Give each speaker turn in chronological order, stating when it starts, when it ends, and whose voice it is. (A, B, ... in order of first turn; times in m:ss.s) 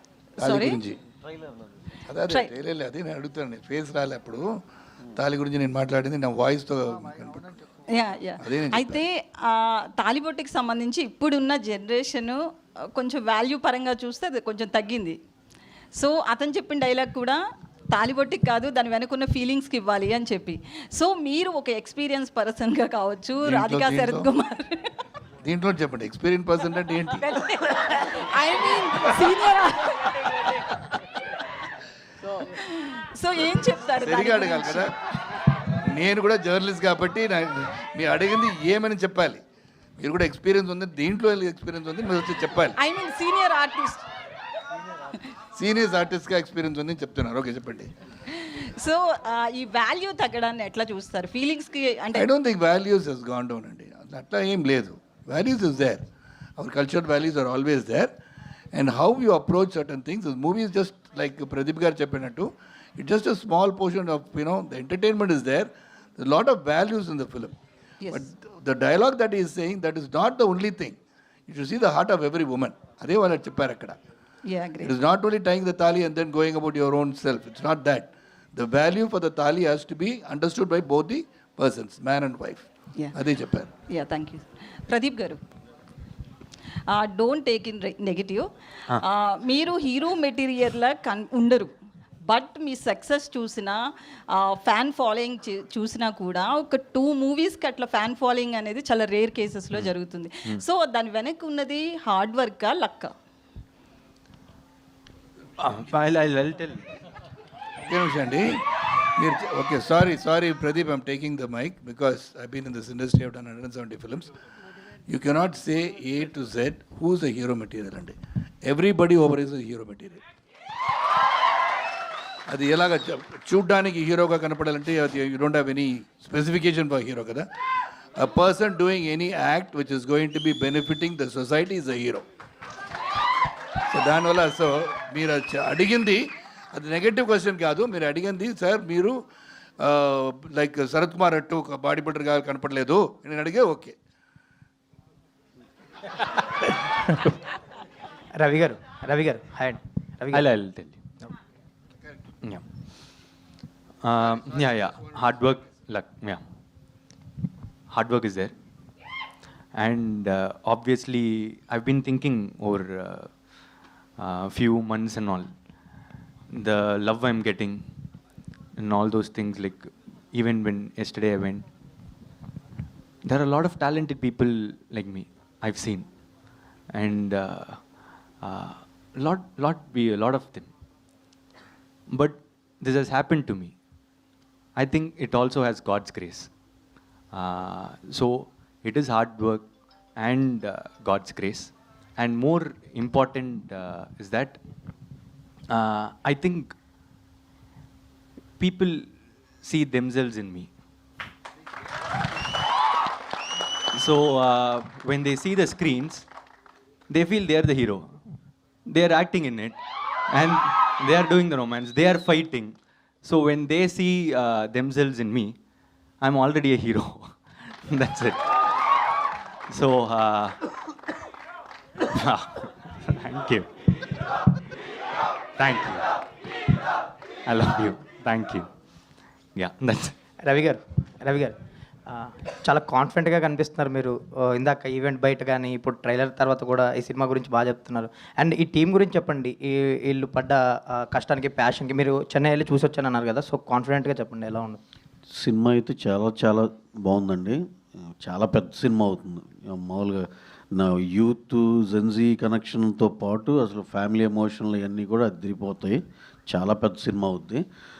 0:00.4-0:00.8 A
0:00.4-0:01.0 B
0:02.1-0:04.4 B
0:05.1-0:07.6 B
0:07.9-0:12.4 A
0:08.4-0:09.0 B
0:12.9-0:15.2 A
0:16.0-0:17.4 A
0:17.9-0:24.9 A
0:23.4-0:24.3 B
0:25.4-0:27.2 B
0:27.2-0:30.6 A
0:32.3-0:34.9 A
0:34.0-0:34.9 B
0:35.8-0:39.4 B
0:40.0-0:42.8 B
0:42.8-0:44.0 A
0:45.5-0:47.9 B
0:48.3-0:52.3 A
0:52.1-0:56.0 B
0:56.6-0:58.1 B
0:58.7-1:07.5 B
1:08.1-1:11.0 B
1:11.5-1:14.0 B
1:14.5-1:14.9 A
1:14.8-1:23.7 B
1:23.9-1:25.4 A
1:26.9-1:31.7 A
1:32.3-1:33.8 A
1:34.3-1:43.1 A
1:45.6-1:47.0 C
1:47.8-1:48.6 B
1:49.2-1:54.3 B
1:55.1-2:00.2 B
2:02.5-2:07.4 B
2:08.2-2:12.2 B
2:13.9-2:19.2 B
2:19.8-2:24.0 B
2:28.4-2:30.4 D
2:30.3-2:31.0 C
2:34.0-2:36.4 C
2:37.9-2:38.5 C
2:39.8-2:43.3 C
2:44.2-2:45.5 C
2:46.5-2:48.0 C
2:48.8-2:51.6 C
2:53.2-2:56.1 C
2:56.9-2:57.8 C
2:58.4-3:00.7 C
3:02.1-3:03.7 C
3:04.8-3:06.5 C
3:07.3-3:14.6 C
3:15.7-3:16.7 C
3:18.6-3:19.1 C
3:19.6-3:20.7 C
3:23.9-3:26.3 C
3:27.1-3:28.2 C
3:28.9-3:29.8 C
3:30.3-3:35.6 C
3:36.2-3:38.8 C
3:39.7-3:40.6 C
3:42.1-3:44.0 C
3:45.6-3:46.1 C
3:47.5-3:48.7 C
3:49.6-3:50.1 C
3:50.5-3:51.6 D
3:52.1-4:04.8 D
4:05.4-4:07.6 E
4:08.2-4:10.2 E
4:10.8-4:16.0 E
4:16.5-4:17.6 E